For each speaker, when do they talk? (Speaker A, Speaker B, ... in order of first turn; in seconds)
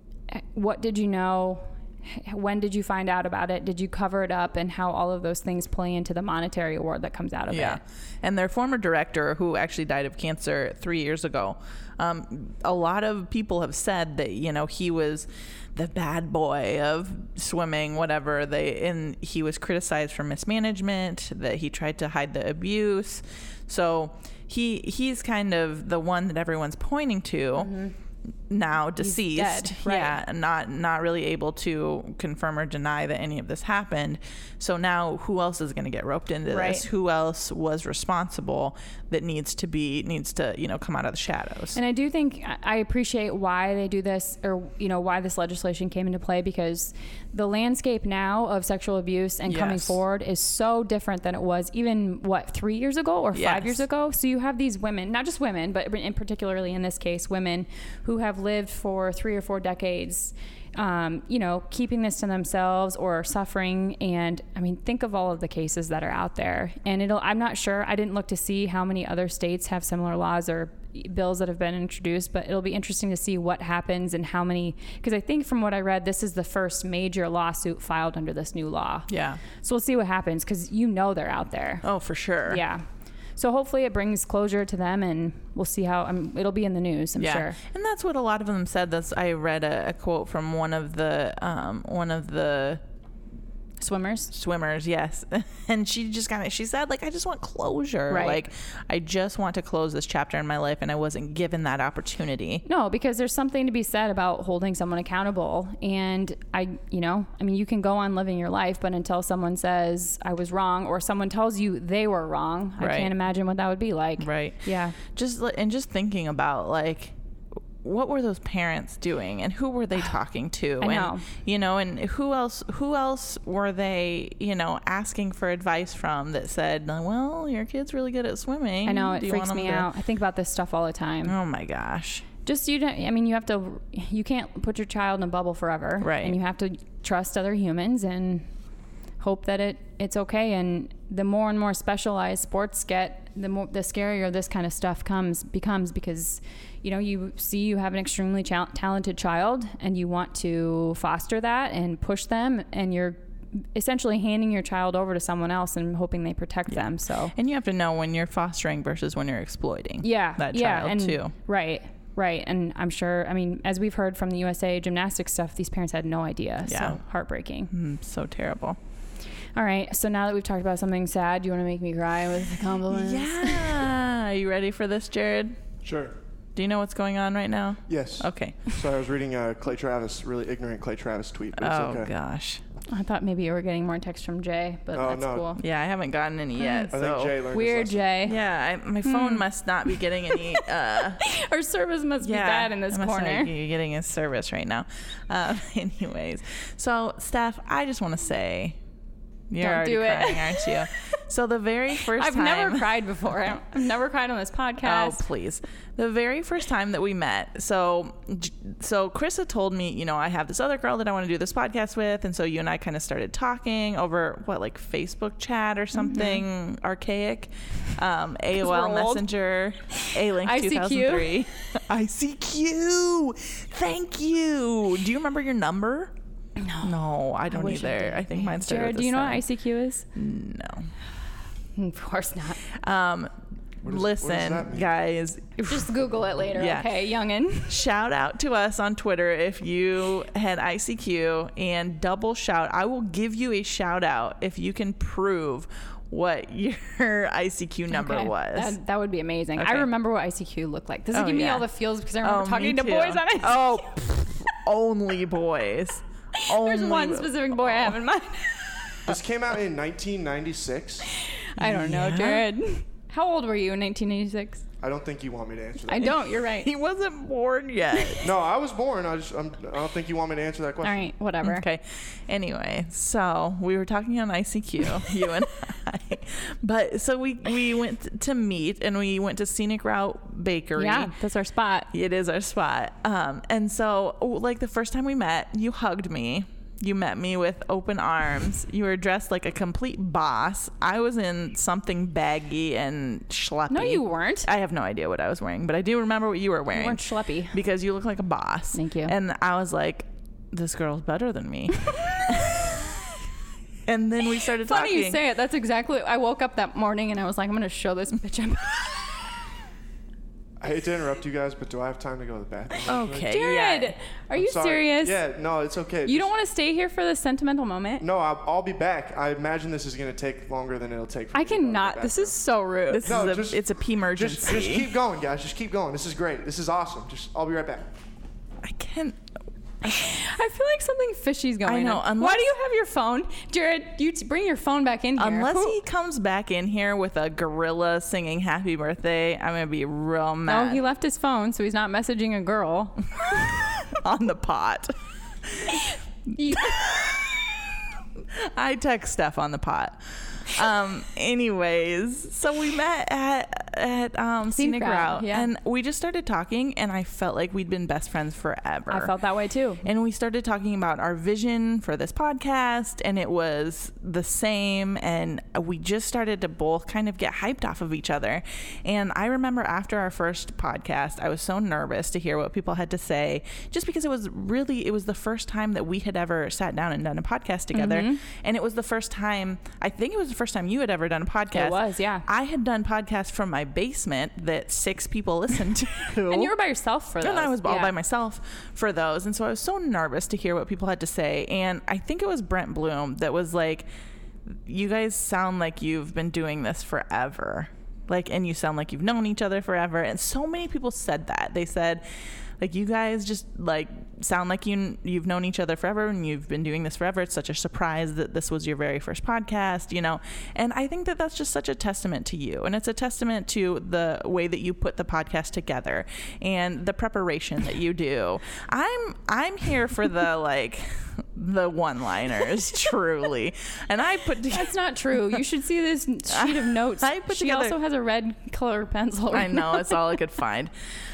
Speaker A: 0.3-7.8, 27.6-27.9, 29.0-30.1, 36.5-36.9, 41.8-79.1, 79.6-81.8, 82.5-82.8, 83.4-87.6, 93.8-94.3, 98.1-98.4, 102.7-115.0, 120.8-121.2, 128.8-131.3, 132.4-138.5, 139.2-153.2, 153.7-157.3, 160.0-167.7, 169.6-173.9, 182.9-185.6, 186.6-186.9, 187.5-188.4, 189.1-190.6, 191.2-193.5, 199.6-200.9, 202.0-205.2, 216.0-216.4, 218.6-219.3, 219.9-221.4, 226.6-226.9, 227.5-230.1, 231.8-232.6, 235.7-237.8, 247.9-254.0, 256.4-258.8, 261.1-264.6, 265.9-266.7, 270.8-271.7, 280.8-281.9, 293.7-294.5, 296.7-297.6, 298.7-299.1, 304.7-309.2, 313.3-315.2, 316.1-318.0, 321.3-323.1, 329.8-335.8, 340.5-343.5, 346.4-346.9, 354.5-355.5, 358.9-359.8, 377.7-378.2, 381.5-382.3, 386.3-387.9, 424.5-430.2
Speaker B: 7.5-27.7, 28.5-41.8, 49.5-50.0, 53.4-53.8, 79.1-79.4, 81.8-82.6, 87.2-92.8, 94.3-102.6, 112.8-113.1, 114.2-117.1, 117.8-129.9, 131.3-132.2, 136.0-136.4, 157.3-161.3, 166.7-167.0, 167.7-168.8, 172.9-175.6, 176.6-178.7, 181.6-182.6, 185.6-187.4, 188.3-191.2, 192.2-198.8, 199.5-203.3, 204.8-226.1, 226.8-229.4, 230.2-230.9, 232.8-233.3, 233.9-235.9, 236.6-236.9, 237.7-248.8, 249.6-249.9, 251.1-251.7, 252.2-258.0, 261.6-262.5, 266.6-268.3, 271.4-281.1, 281.9-302.8, 303.9-305.2, 312.9-313.9, 322.9-324.9, 328.6-329.2, 331.6-332.5, 335.2-340.8, 343.3-344.9, 345.5-345.9, 346.5-359.1, 359.8-386.5, 387.2-393.9, 394.7-402.0, 402.6-424.8, 426.3-427.8, 429.3-430.7
Speaker C: 175.8-176.2, 177.9-182.1, 184.9-185.5, 186.9-188.0, 233.8-234.9, 259.1-261.1, 264.8-266.2, 268.2-271.1, 310.6-313.3, 314.4-316.3, 318.0-322.4, 323.1-327.9